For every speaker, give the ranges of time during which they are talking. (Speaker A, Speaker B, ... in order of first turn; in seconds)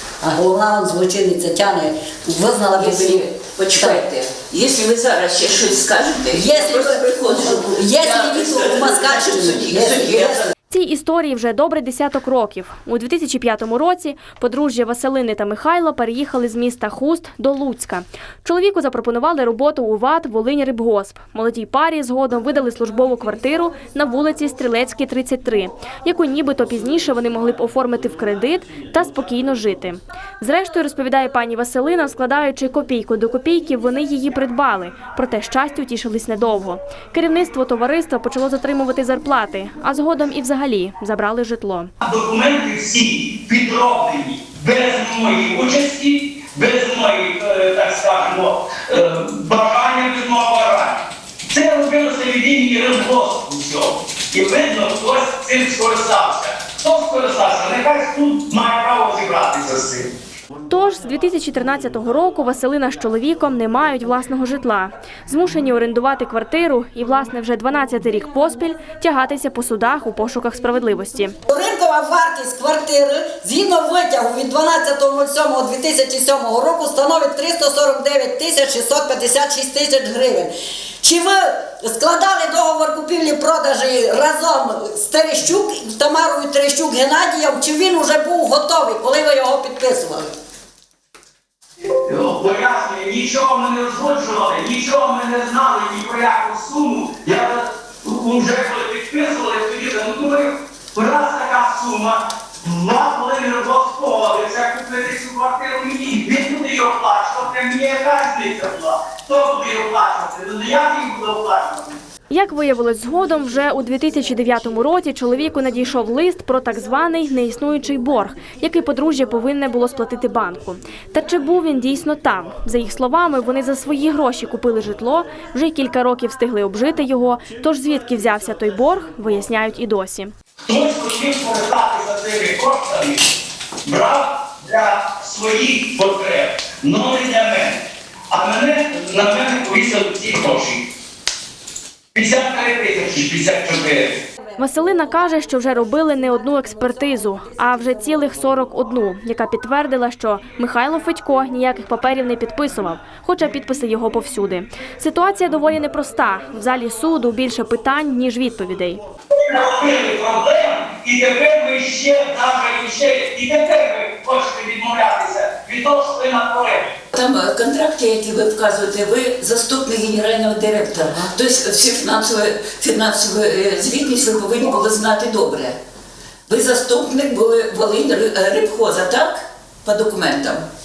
Speaker A: 0.2-4.0, 6.3-10.5, 71.5-90.3
Speaker B: 2.8-10.5, 167.1-175.8, 176.5-180.6
Speaker C: 10.7-41.9, 60.7-71.3, 112.3-130.3, 144.6-159.0
Speaker D: 42.0-60.1, 92.0-111.9, 130.7-133.3, 133.8-137.8, 138.3-140.8, 142.1-144.2, 159.4-166.9